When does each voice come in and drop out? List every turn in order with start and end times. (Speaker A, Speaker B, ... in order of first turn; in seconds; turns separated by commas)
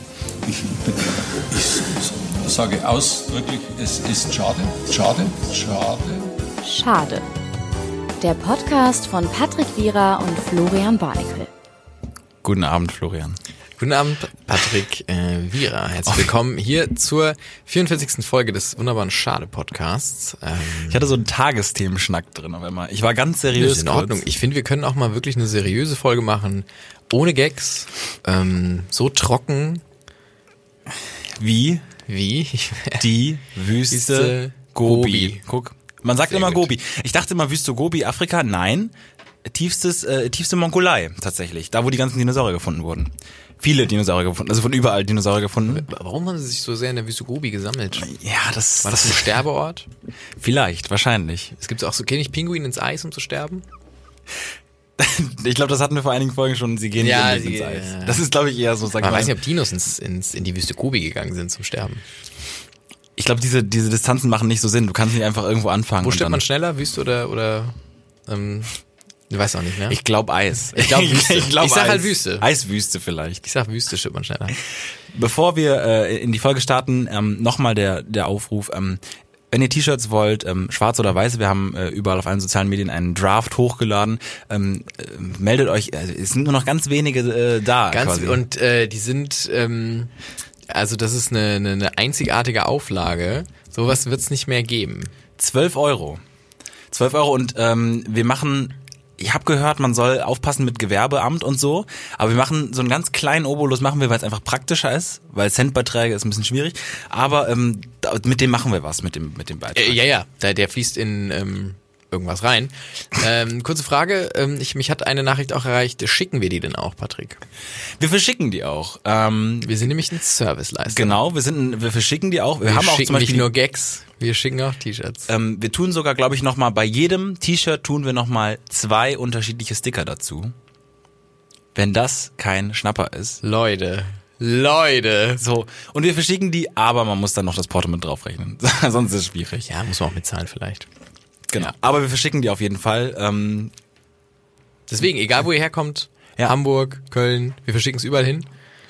Speaker A: 0.4-6.4, Speaker B: 6.6-7.3, Speaker B: 8.2-11.5, Speaker C: 12.4-13.4, Speaker D: 13.8-21.1, Speaker C: 20.9-24.2, Speaker D: 23.5-29.8, Speaker C: 31.3-31.9, Speaker D: 32.1-33.0, Speaker C: 33.0-45.9, Speaker D: 33.9-35.4, Speaker D: 36.3-36.7, Speaker D: 45.7-48.1, Speaker C: 47.9-49.4, Speaker D: 48.8-49.9, Speaker C: 50.4-51.5, Speaker D: 51.6-53.6, Speaker C: 55.0-59.4, Speaker D: 57.0-58.3, Speaker D: 59.0-62.0, Speaker C: 63.2-66.4, Speaker D: 66.0-67.8, Speaker D: 68.3-68.7, Speaker D: 69.3-70.0, Speaker C: 69.9-73.4, Speaker D: 70.7-72.5, Speaker D: 73.4-74.6, Speaker C: 75.1-88.4, Speaker D: 87.9-90.1, Speaker D: 90.7-95.1, Speaker C: 95.4-96.2, Speaker C: 96.9-110.0, Speaker D: 109.8-117.4, Speaker C: 118.0-119.7, Speaker D: 119.6-121.2, Speaker C: 120.9-123.5, Speaker D: 122.6-125.3, Speaker C: 125.3-130.5, Speaker C: 131.8-133.4, Speaker D: 133.4-135.4, Speaker C: 135.4-139.7, Speaker D: 139.6-140.9, Speaker C: 141.5-143.7, Speaker D: 144.9-148.5